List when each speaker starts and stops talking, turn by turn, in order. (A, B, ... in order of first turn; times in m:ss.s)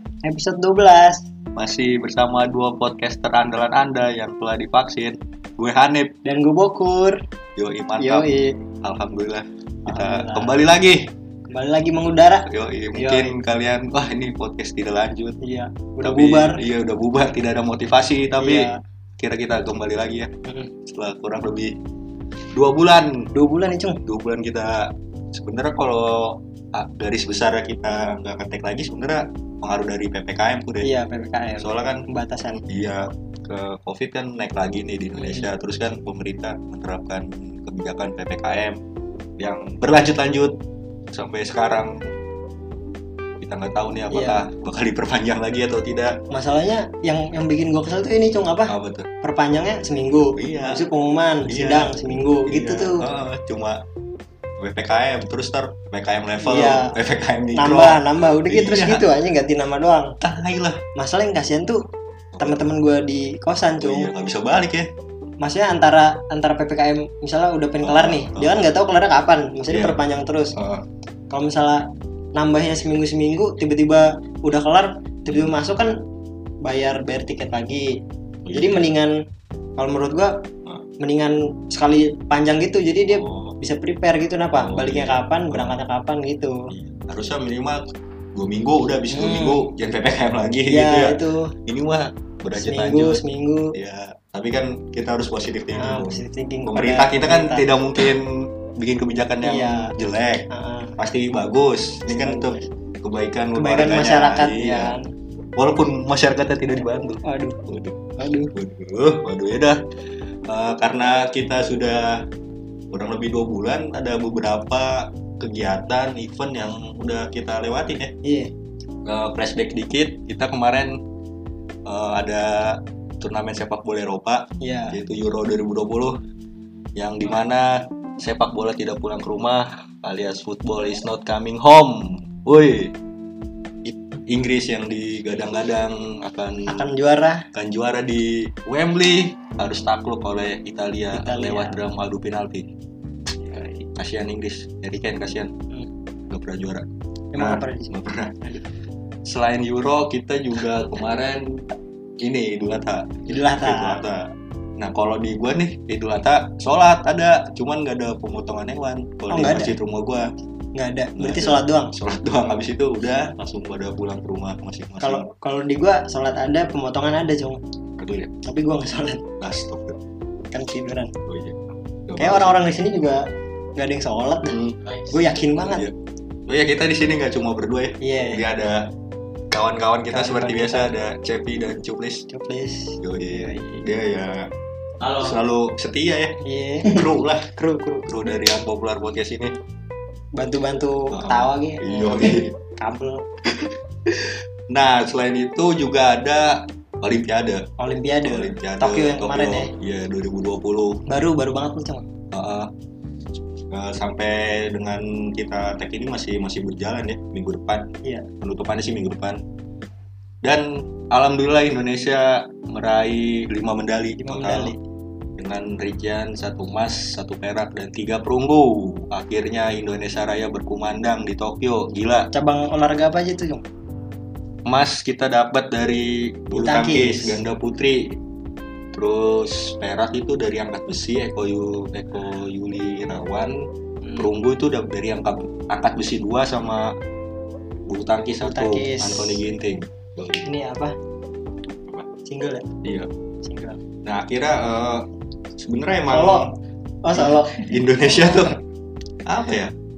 0:00.2-0:01.2 A
0:01.6-0:06.2 B
0:06.2-0:07.2 A
0:07.6-0:08.3 B
0:08.0-0:08.6 A
0:08.8-0:11.1 B
0:09.9-0:10.6 A
0:11.5-0:13.3 A
0:12.5-0:15.4 B
0:15.4-0:16.6 A
0:16.0-0:20.3 B
0:18.4-0:18.8 A
0:20.5-0:20.7 A
0:20.9-0:21.8 B
0:22.5-0:23.3 B
0:23.3-0:24.0 A
0:24.0-0:30.9 B
0:30.8-0:32.6 A
0:31.6-0:38.8 B
0:35.2-0:35.5 A
0:39.4-0:40.6 B
0:41.1-0:42.1 B
0:43.4-0:46.2 B
0:44.1-0:44.4 A
0:46.3-0:53.1 A
0:48.7-0:49.1 B
0:50.4-0:50.8 B
0:51.5-0:53.8 B
0:54.6-0:59.1 B
0:56.4-0:57.0 A
0:57.5-1:00.1 A
1:00.2-1:00.8 B
1:01.0-1:01.8 A
1:02.3-1:02.7 B
1:02.4-1:04.1 A
1:03.8-1:04.9 B
1:05.4-1:10.6 A
1:07.8-1:08.7 B
1:09.7-1:10.0 B
1:10.5-1:10.8 B
1:11.3-1:16.0 A
1:16.6-1:18.0 A
1:18.4-1:18.9 B
1:18.5-1:19.2 A
1:19.8-1:20.4 A
1:21.0-1:26.6 A
1:23.0-1:23.6 B
1:24.6-1:25.8 B
1:26.7-1:27.8 B
1:28.4-1:33.2 B
1:29.1-1:29.7 A
1:30.7-1:31.5 A
1:32.6-1:33.8 A
1:33.7-1:40.5 B
1:35.7-1:37.6 A
1:39.4-1:40.0 A
1:40.5-1:41.0 A
1:41.0-1:44.9 B
1:42.1-1:42.7 A
1:43.6-1:45.1 A
1:45.6-1:48.0 B
1:47.2-1:47.6 A
1:48.2-1:48.5 A
1:48.5-1:49.8 B
1:50.5-1:52.2 B
1:52.9-1:58.1 B
1:58.2-1:58.5 A
1:59.0-2:01.0 B
2:01.8-2:06.2 B
2:04.6-2:05.0 A
2:07.0-2:13.0 B
2:13.8-2:16.9 B
2:16.7-2:17.5 A
2:17.5-2:22.7 B
2:21.1-2:21.8 A
2:23.4-2:25.5 B
2:26.3-2:28.4 B
2:27.3-2:28.6 A
2:29.2-2:31.7 B
2:32.2-2:40.3 B
2:33.3-2:34.0 A
2:39.3-2:39.7 A
2:40.8-2:41.9 A
2:41.2-2:45.3 B
2:45.0-2:47.6 A
2:48.0-2:48.3 B
2:48.4-2:49.2 A
2:49.4-2:50.0 B
2:50.5-2:51.1 A
2:51.3-2:52.7 B
2:52.2-2:53.2 A
2:53.8-2:55.9 A
2:54.5-2:54.8 B
2:55.6-2:55.9 B
2:56.5-2:58.9 B
2:58.0-2:58.4 A
2:59.5-3:02.2 B
3:00.1-3:00.9 A
3:02.3-3:03.9 A
3:03.0-3:04.5 B
3:05.2-3:09.6 B
3:06.4-3:07.0 A
3:07.6-3:08.1 A
3:10.4-3:13.2 A
3:11.1-3:12.6 B
3:13.5-3:17.7 B
3:17.8-3:19.7 A
3:18.2-3:21.0 B
3:21.1-3:22.1 A
3:22.3-3:22.7 B
3:23.7-3:29.4 B
3:30.4-3:34.8 B
3:34.2-3:34.8 A
3:35.4-3:42.3 B
3:42.3-3:43.6 A
3:44.7-3:48.2 B
3:46.5-3:47.4 A
3:48.9-3:57.0 B
3:57.9-4:00.5 B
3:58.4-3:59.4 A
4:00.4-4:01.0 A
4:02.2-4:02.7 A
4:02.8-4:03.1 B
4:03.4-4:03.8 A
4:04.0-4:06.5 B
4:06.1-4:06.5 A
4:07.0-4:08.5 A
4:07.2-4:08.6 B
4:09.3-4:09.7 B